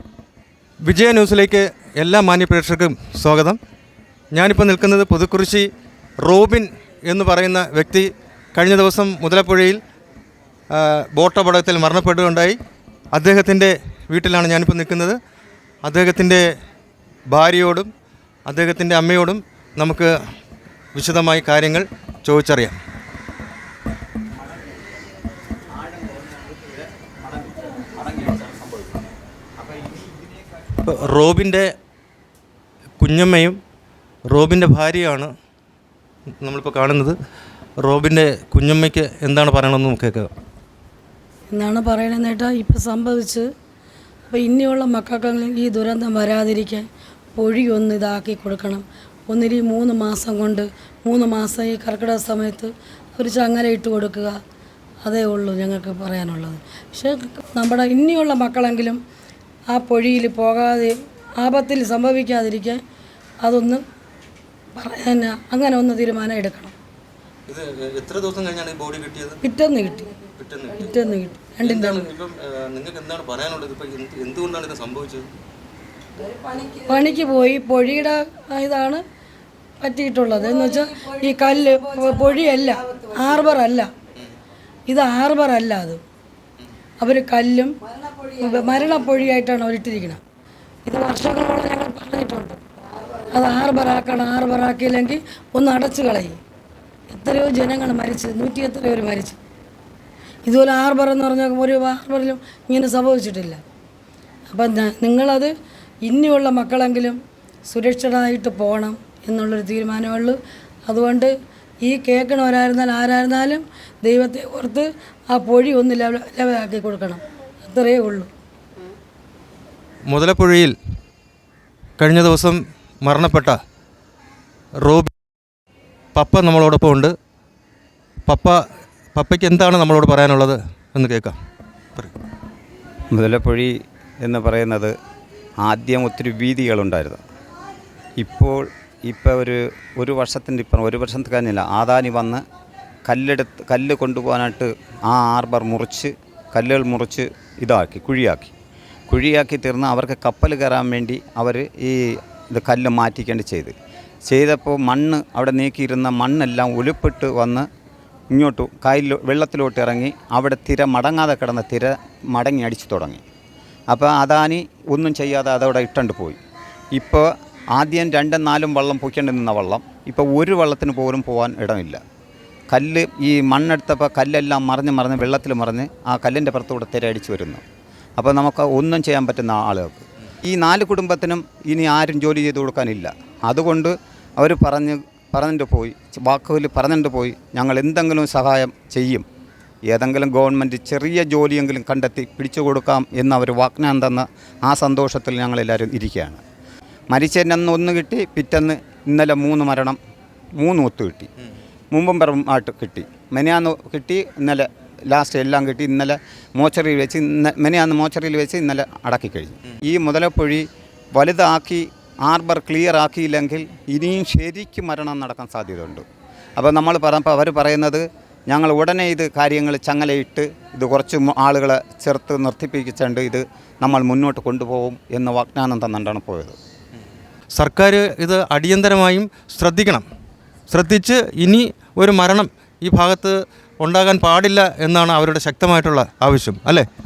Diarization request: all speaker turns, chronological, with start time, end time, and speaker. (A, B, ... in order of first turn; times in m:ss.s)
0:00.8-0:03.6 A
0:04.3-0:05.7 A
0:06.2-0:09.8 A
0:10.7-0:12.6 A
0:13.1-0:15.2 A
0:15.8-0:16.4 A
0:17.3-0:17.9 A
0:18.5-0:20.1 A
0:20.9-0:22.8 A
0:25.7-0:28.9 B
0:29.6-0:30.3 B
0:30.8-0:31.7 A
0:33.0-0:33.6 A
0:34.3-0:35.3 A
0:36.4-0:37.1 A
0:37.8-0:40.3 A
0:41.5-0:43.5 C
0:44.3-0:54.4 C
0:55.0-0:59.0 C
0:59.7-1:02.8 C
1:03.4-1:03.8 C
1:04.8-1:06.7 C
1:07.5-1:09.4 A
1:09.4-1:10.1 C
1:10.4-1:10.9 A
1:10.7-1:12.1 C
1:11.6-1:15.3 A
1:16.8-1:19.0 C
1:19.8-1:23.9 C
1:24.9-1:26.0 C
1:27.0-1:27.7 C
1:28.3-1:30.2 C
1:30.8-1:32.6 C
1:33.2-1:36.4 C
1:37.1-1:39.4 C
1:40.4-1:43.6 C
1:44.5-1:45.5 C
1:46.0-1:51.3 C
1:51.8-1:58.3 C
2:00.1-2:00.7 A
2:02.0-2:03.6 A
2:04.8-2:05.1 A
2:06.1-2:07.1 A
2:08.3-2:08.6 A
2:09.1-2:11.4 A
2:13.1-2:14.9 B
2:15.6-2:17.2 B
2:18.2-2:22.4 B
2:23.1-2:28.5 B
2:29.1-2:33.7 B
2:34.3-2:37.7 B
2:38.3-2:43.2 B
2:43.9-2:46.4 B
2:46.9-2:52.0 B
2:52.7-2:57.6 B
2:58.2-3:09.2 B
3:09.9-3:16.4 B
3:17.1-3:20.0 B
3:20.6-3:21.3 B
3:21.9-3:36.0 B
3:36.6-3:46.6 B
3:47.5-3:50.0 A
3:50.7-3:56.8 A